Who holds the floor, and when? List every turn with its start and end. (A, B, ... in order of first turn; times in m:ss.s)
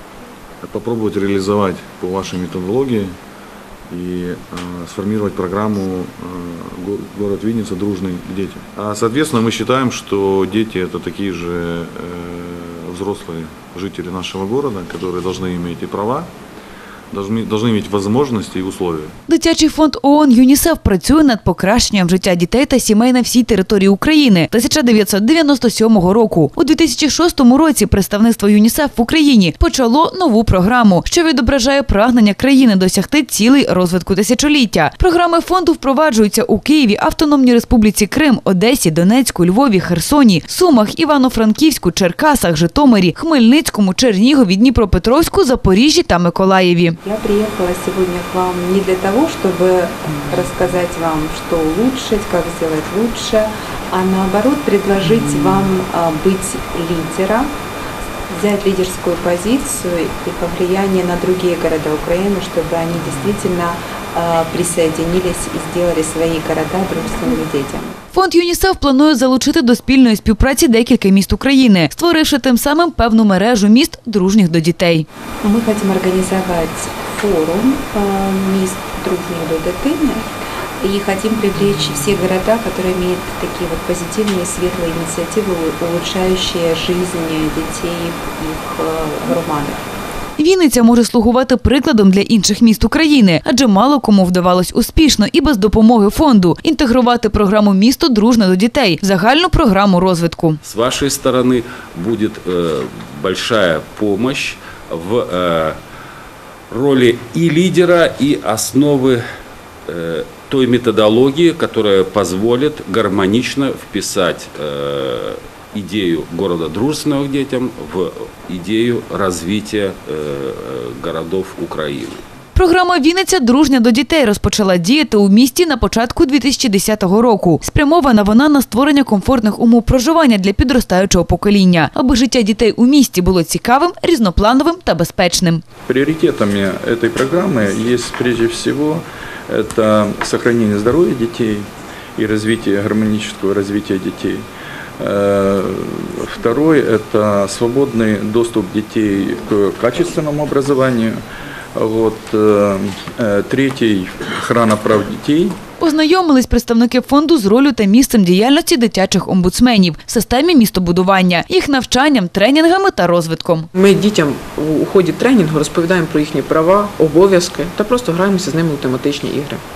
0:00.6-0:03.1 A
0:03.9-0:16.3 A
0:17.1-0:19.1 A
0:19.3-0:47.0 B
0:47.0-0:57.5 C
0:58.3-1:08.0 C
1:08.1-1:15.1 B
1:15.4-1:20.2 C
1:20.8-1:29.8 C
1:30.4-1:40.6 B
1:40.6-1:45.8 D
1:46.7-1:49.2 D
1:49.9-2:02.2 D
2:02.5-2:15.6 B
2:15.9-2:24.4 E
2:25.0-2:31.2 E
2:31.8-2:35.6 E
2:35.8-2:43.7 B
2:43.7-2:49.6 F